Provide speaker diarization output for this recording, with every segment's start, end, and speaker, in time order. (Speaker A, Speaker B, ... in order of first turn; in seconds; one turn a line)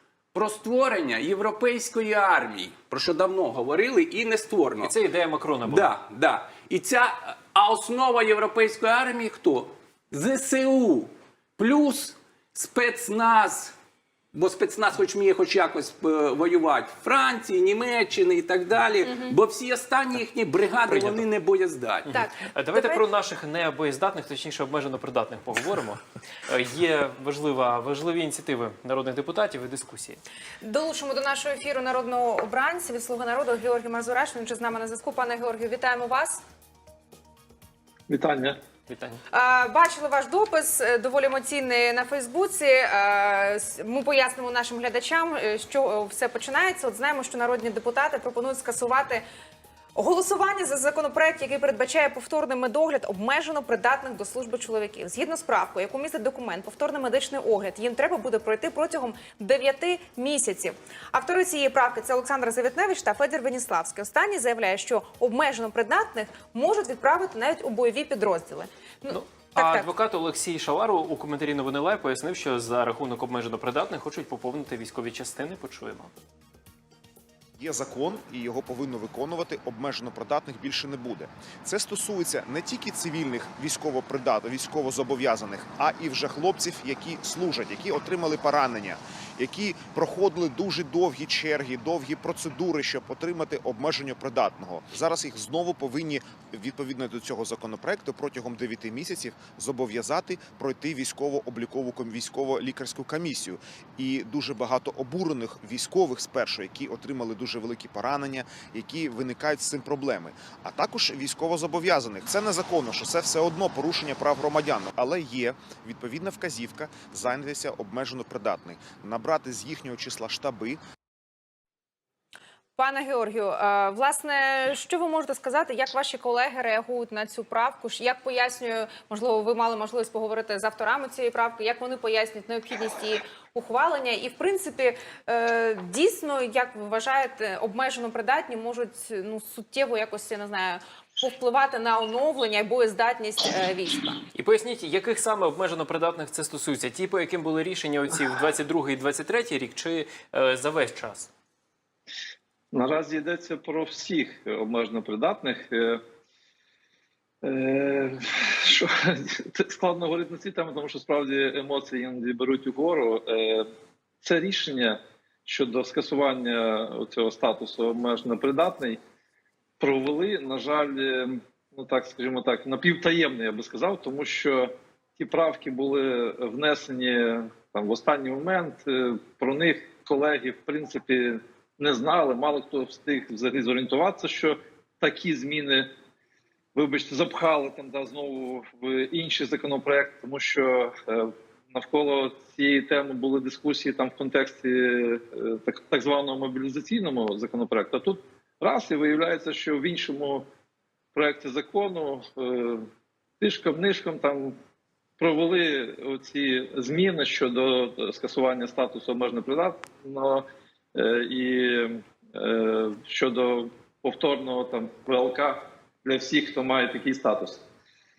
Speaker A: 0.3-4.9
Speaker B: 4.8-5.9
Speaker A: 5.6-13.7
Speaker A: 14.3-22.1
Speaker C: 19.0-19.4
Speaker B: 20.9-21.2
Speaker B: 22.1-30.2
Speaker C: 22.1-23.0
Speaker C: 30.6-36.4
Speaker D: 38.1-38.6
Speaker B: 38.9-39.2
Speaker C: 39.3-49.2
Speaker C: 50.0-69.9
Speaker B: 69.1-76.1
Speaker E: 77.6-120.8
Speaker C: 122.8-144.2
Speaker B: 144.3-151.3
Speaker D: 152.7-156.0
Speaker D: 157.4-163.7
Speaker D: 164.2-169.0
Speaker D: 169.8-185.9
Speaker D: 186.7-200.4
Speaker D: 201.1-202.9
Speaker D: 203.4-204.6
Speaker D: 205.2-210.4
Speaker D: 210.9-217.6